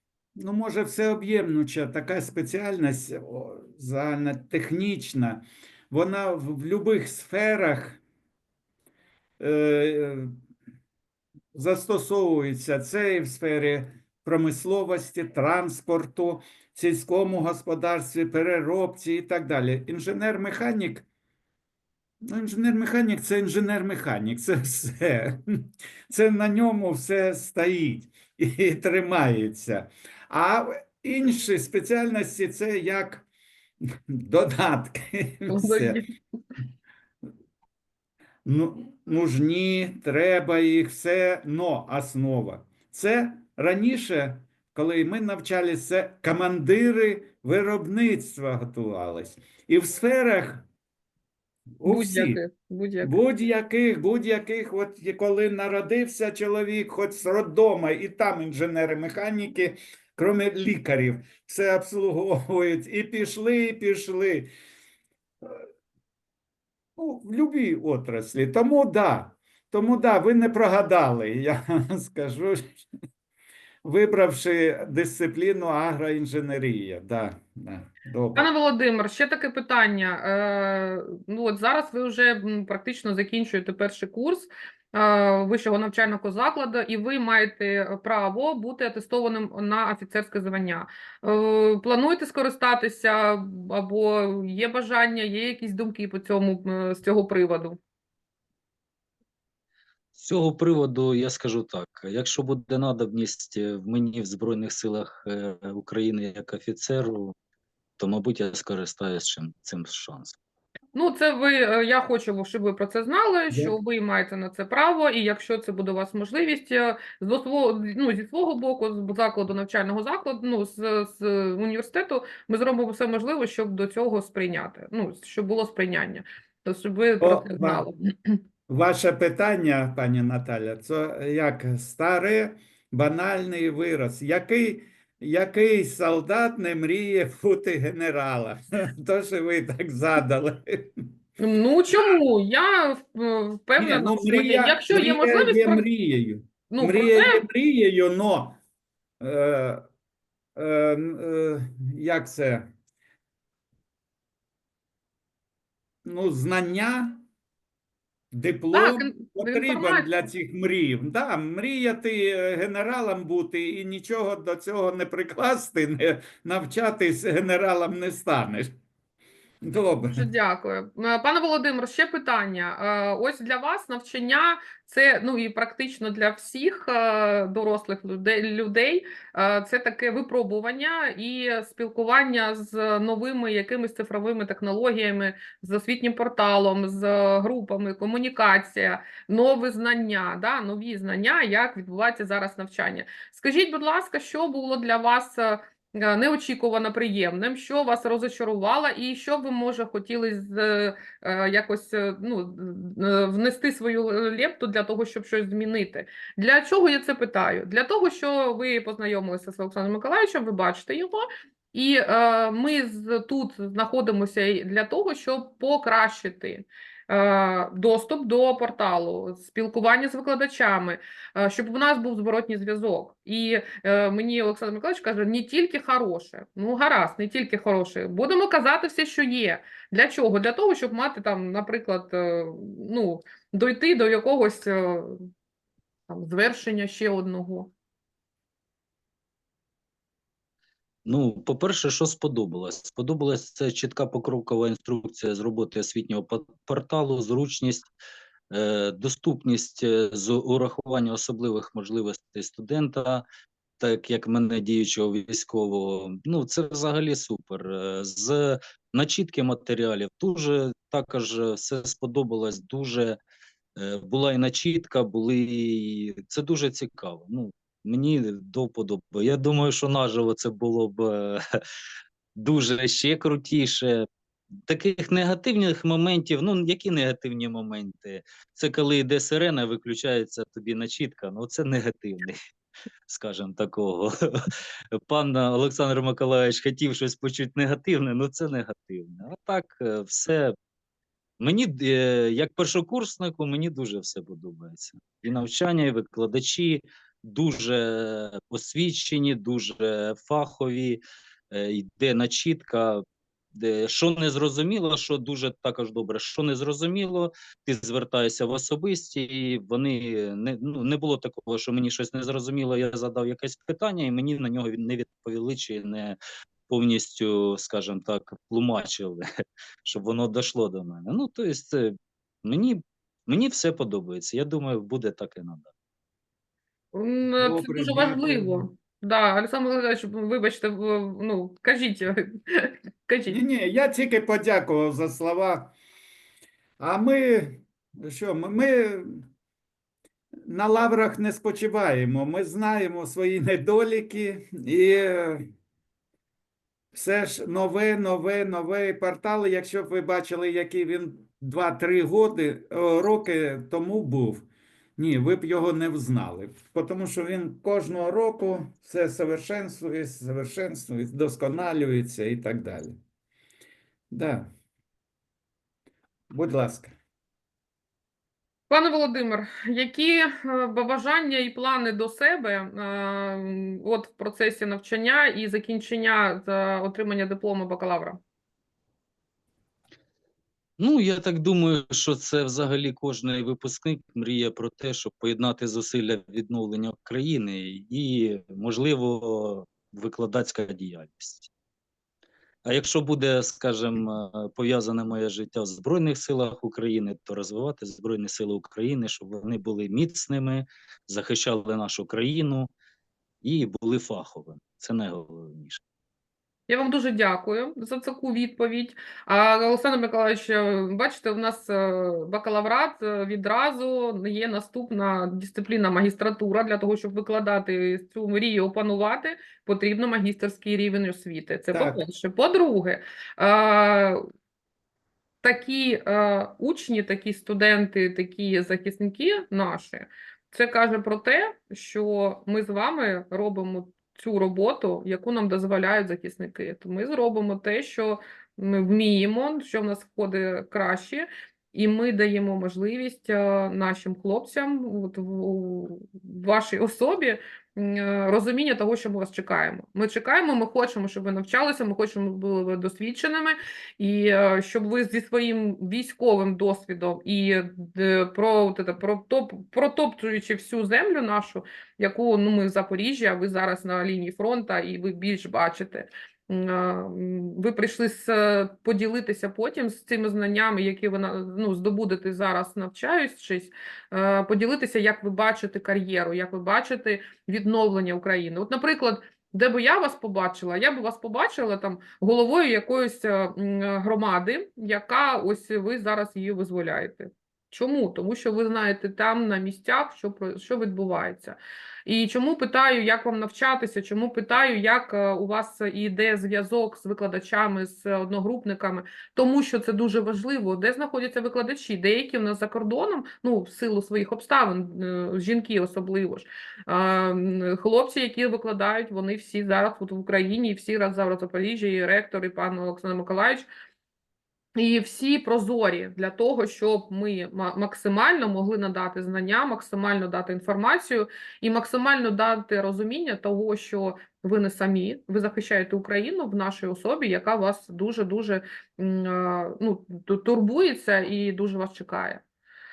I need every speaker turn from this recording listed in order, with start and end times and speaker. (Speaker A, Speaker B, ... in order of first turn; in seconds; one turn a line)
Speaker A: 0.4-8.0
Speaker A: 9.4-10.3
Speaker A: 11.5-21.1
Speaker A: 22.2-33.2
Speaker A: 34.1-36.0
Speaker B: 35.5-36.1
Speaker A: 38.4-50.6
Speaker A: 51.8-52.4
Speaker B: 51.8-53.1
Speaker A: 53.0-64.5
Speaker A: 67.0-72.8
Speaker A: 73.8-78.5
Speaker B: 78.3-97.8
Speaker C: 100.1-107.3
Speaker C: 108.0-110.4
Speaker B: 110.9-128.4
Speaker A: 113.5-113.7
Speaker A: 127.2-127.8
Speaker A: 128.7-141.1
Speaker B: 141.4-145.8
Speaker A: 143.8-148.6
Speaker B: 146.7-147.4
Speaker A: 149.2-149.8
Speaker A: 150.6-152.7
Speaker A: 156.0-157.2
Speaker A: 158.3-168.7
Speaker B: 158.7-160.1
Speaker A: 169.6-170.3
Speaker B: 170.1-235.2
Speaker B: 236.1-237.7
Speaker C: 241.0-247.9
Speaker C: 248.5-253.2
Speaker C: 253.8-263.2
Speaker C: 263.8-271.4
Speaker C: 272.4-274.1
Speaker C: 274.6-282.4
Speaker C: 283.1-290.6
Speaker C: 291.4-319.2
Speaker C: 319.8-325.7
Speaker B: 326.9-333.4
Speaker A: 327.4-328.7
Speaker A: 333.3-335.7
Speaker A: 336.8-339.3
Speaker A: 340.4-345.5
Speaker A: 346.9-363.0
Speaker A: 364.1-364.5
Speaker A: 366.3-366.9
Speaker B: 368.7-378.2
Speaker C: 380.8-391.5
Speaker C: 392.6-402.7
Speaker C: 403.4-405.8
Speaker B: 406.7-424.2
Speaker A: 421.7-422.0
Speaker B: 425.4-513.7
Speaker B: 514.8-532.4